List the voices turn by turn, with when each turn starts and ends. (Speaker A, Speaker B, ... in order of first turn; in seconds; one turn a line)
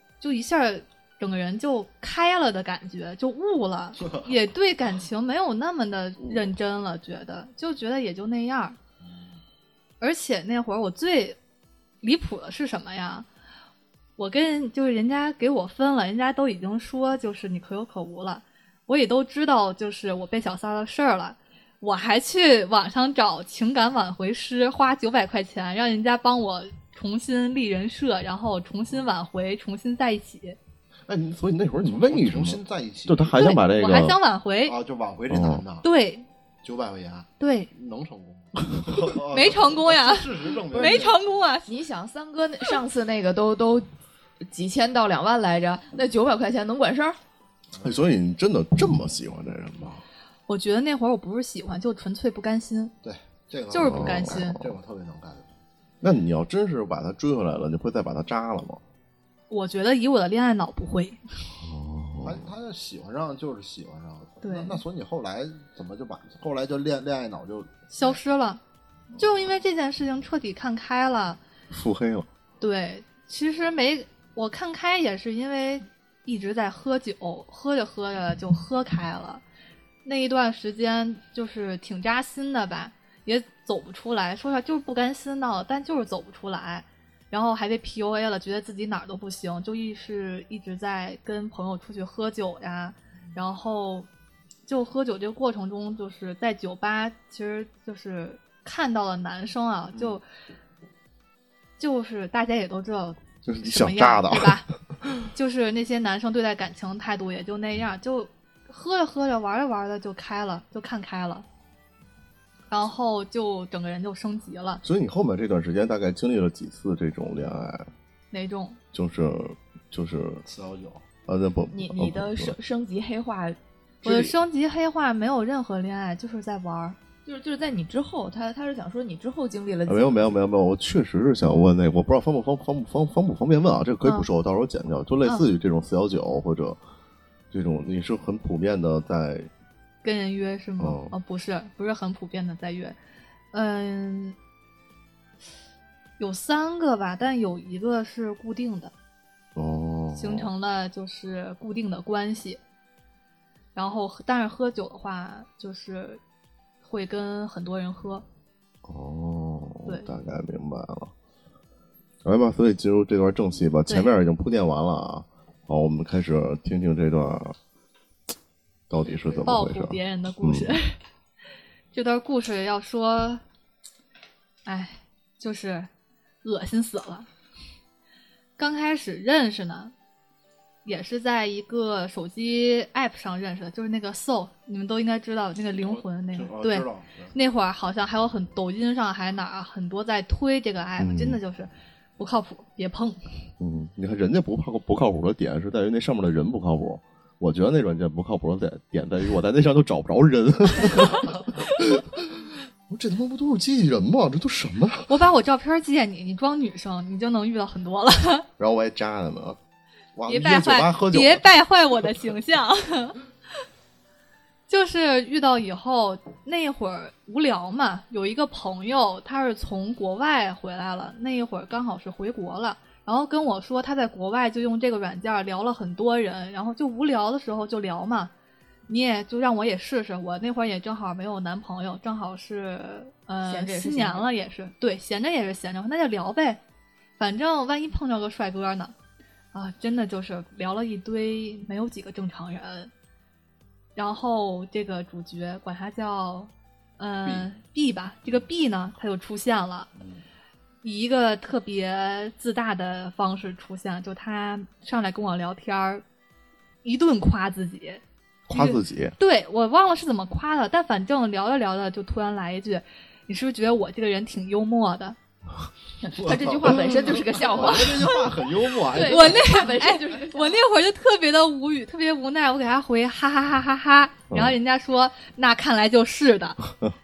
Speaker A: 0.2-8.8
Speaker B: 4.0-4.3
Speaker B: 9.0-9.4
Speaker A: 10.0-11.4
Speaker A: 12.0-13.3
Speaker A: 14.2-30.6
Speaker C: 31.1-34.2
Speaker B: 31.8-33.4
Speaker A: 33.3-34.8
Speaker B: 34.6-35.9
Speaker C: 35.3-35.6
Speaker A: 35.8-36.3
Speaker B: 36.6-41.2
Speaker A: 37.4-37.7
Speaker A: 39.3-41.7
Speaker D: 40.8-41.0
Speaker D: 41.7-43.9
Speaker D: 44.5-47.2
Speaker B: 47.7-48.1
Speaker C: 47.8-50.0
Speaker A: 50.5-52.9
Speaker B: 53.0-55.5
Speaker A: 53.7-54.7
Speaker C: 53.8-54.5
Speaker C: 56.0-58.8
Speaker A: 59.5-61.2
Speaker C: 61.6-62.5
Speaker B: 62.2-68.2
Speaker A: 64.4-64.8
Speaker A: 67.9-68.6
Speaker A: 69.2-71.4
Speaker C: 71.7-72.3
Speaker A: 72.6-79.4
Speaker A: 80.0-94.1
Speaker A: 94.7-100.2
Speaker B: 99.9-100.2
Speaker A: 101.8-104.7
Speaker C: 103.5-105.3
Speaker A: 105.3-111.5
Speaker A: 112.7-114.8
Speaker C: 114.8-117.9
Speaker A: 118.3-118.8
Speaker C: 118.9-120.4
Speaker B: 120.4-121.0
Speaker C: 121.3-122.5
Speaker D: 121.7-123.6
Speaker A: 124.0-127.0
Speaker D: 127.2-130.4
Speaker C: 129.9-136.8
Speaker A: 134.0-134.3
Speaker A: 135.2-135.5
Speaker C: 137.5-139.5
Speaker A: 140.0-143.0
Speaker C: 140.8-141.2
Speaker A: 143.5-144.4
Speaker A: 146.2-148.9
Speaker C: 149.6-150.5
Speaker A: 150.1-152.6
Speaker A: 153.8-156.2
Speaker A: 156.8-158.2
Speaker C: 158.8-161.1
Speaker C: 162.2-167.6
Speaker A: 163.9-164.1
Speaker C: 168.9-170.7
Speaker A: 169.0-171.0
Speaker A: 171.9-173.4
Speaker A: 174.7-175.9
Speaker A: 176.4-177.3
Speaker A: 178.6-179.9
Speaker A: 180.8-193.2
Speaker B: 185.8-187.3
Speaker C: 191.0-191.4
Speaker C: 193.6-205.1
Speaker A: 205.1-208.5
Speaker C: 208.6-209.6
Speaker C: 210.2-211.4
Speaker A: 210.3-213.2
Speaker A: 214.7-228.3
Speaker A: 228.9-236.6
Speaker D: 233.4-234.3
Speaker A: 237.2-238.9
Speaker A: 239.5-242.9
Speaker A: 244.0-249.9
Speaker B: 247.2-247.5
Speaker B: 250.0-250.2
Speaker A: 250.8-256.0
Speaker A: 256.8-265.2
Speaker C: 258.5-259.2
Speaker D: 266.0-268.3
Speaker B: 266.1-269.6
Speaker D: 268.8-270.6
Speaker A: 269.0-276.6
Speaker C: 274.3-274.6